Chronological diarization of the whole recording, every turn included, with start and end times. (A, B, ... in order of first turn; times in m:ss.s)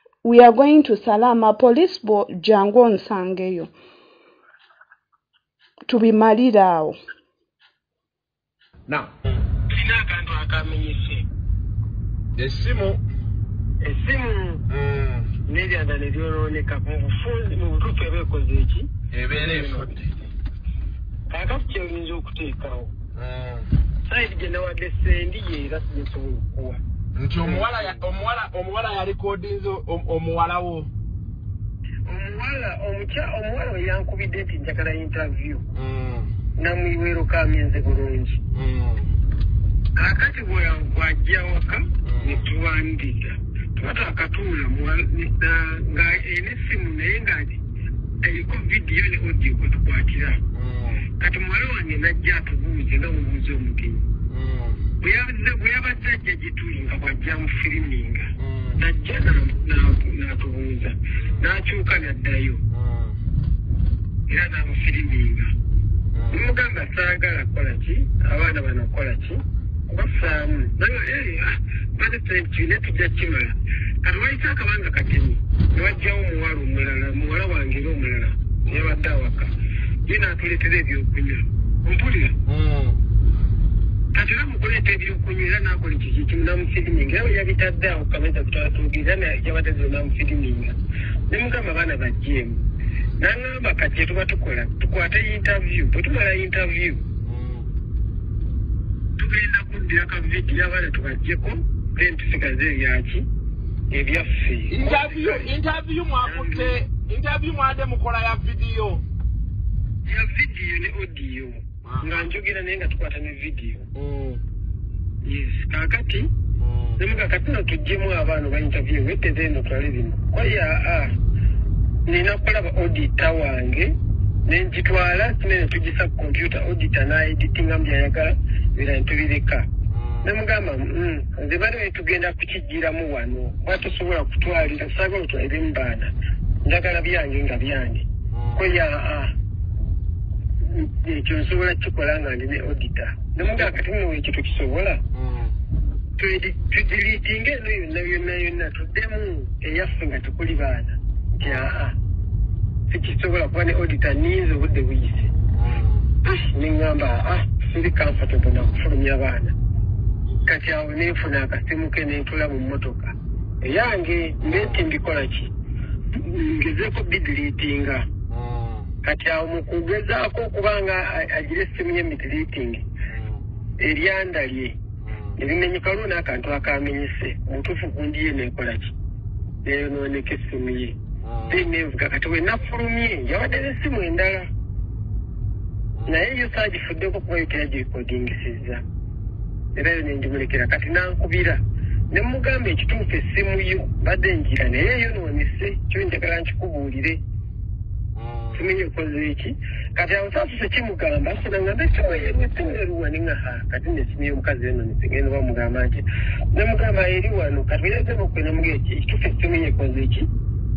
0:00.2-0:03.7 A
0:05.9-0:07.0 A
0:08.9-0:09.4 B
0:09.7-0:11.2 C
0:12.4-0:13.0 B
0:13.8-0:14.6 C
0:14.7-0:15.3 B
0:15.5-0:19.9 C
0:19.1-0:20.1 B
0:21.3-0:22.9 C
0:23.1-0:23.7 B
0:24.0-0:26.8 C
0:27.2-0:30.9 B
0:27.4-0:28.0 C
0:32.1-0:35.6 C
0:35.7-0:36.3 B
0:36.6-0:38.4 C
0:38.5-0:39.1 B
0:39.9-0:47.6 C
0:42.0-0:42.5 B
0:48.2-0:50.4 C
0:50.5-0:51.1 B
0:51.2-0:54.0 C
0:54.3-0:54.9 B
0:55.0-1:02.6 C
0:58.4-0:58.8 B
1:01.2-1:01.4 B
1:02.7-1:03.2 B
1:04.3-1:05.5 C
1:06.1-1:06.5 B
1:06.3-1:19.5 C
1:18.7-1:19.0 B
1:20.1-1:22.3 C
1:22.5-1:23.0 B
1:24.1-1:30.7 C
1:31.3-1:32.6 C
1:33.2-1:37.0 C
1:37.2-1:37.7 B
1:39.2-1:43.2 C
1:43.9-1:45.5 C
1:44.7-1:49.0 B
1:46.2-1:46.8 C
1:50.0-1:53.8 C
1:54.0-1:54.4 B
1:55.2-1:56.3 C
1:56.6-1:57.0 B
1:57.0-2:01.1 C
2:02.1-2:03.9 C
2:04.4-2:09.7 C
2:09.9-2:10.3 B
2:10.2-2:16.1 C
2:16.6-2:19.3 C
2:18.3-2:18.8 B
2:20.7-2:25.0 C
2:25.1-2:25.6 B
2:26.2-2:31.9 C
2:31.4-2:31.7 B
2:32.9-2:35.3 C
2:35.5-2:36.1 B
2:36.2-2:39.5 C
2:40.4-2:45.5 C
2:44.4-2:44.8 B
2:46.2-2:48.0 C
2:48.3-2:48.9 B
2:49.0-2:52.8 C
2:53.1-2:53.4 B
2:53.8-2:54.8 C
2:55.0-2:55.4 B
2:55.4-2:58.9 C
2:59.6-3:00.9 C
3:01.2-3:01.7 B
3:01.5-3:04.5 C
3:06.0-3:06.2 B
3:06.1-3:08.8 C
3:09.7-3:11.6 C
3:12.1-3:17.2 C
3:18.2-3:18.7 B
3:18.5-3:30.3 C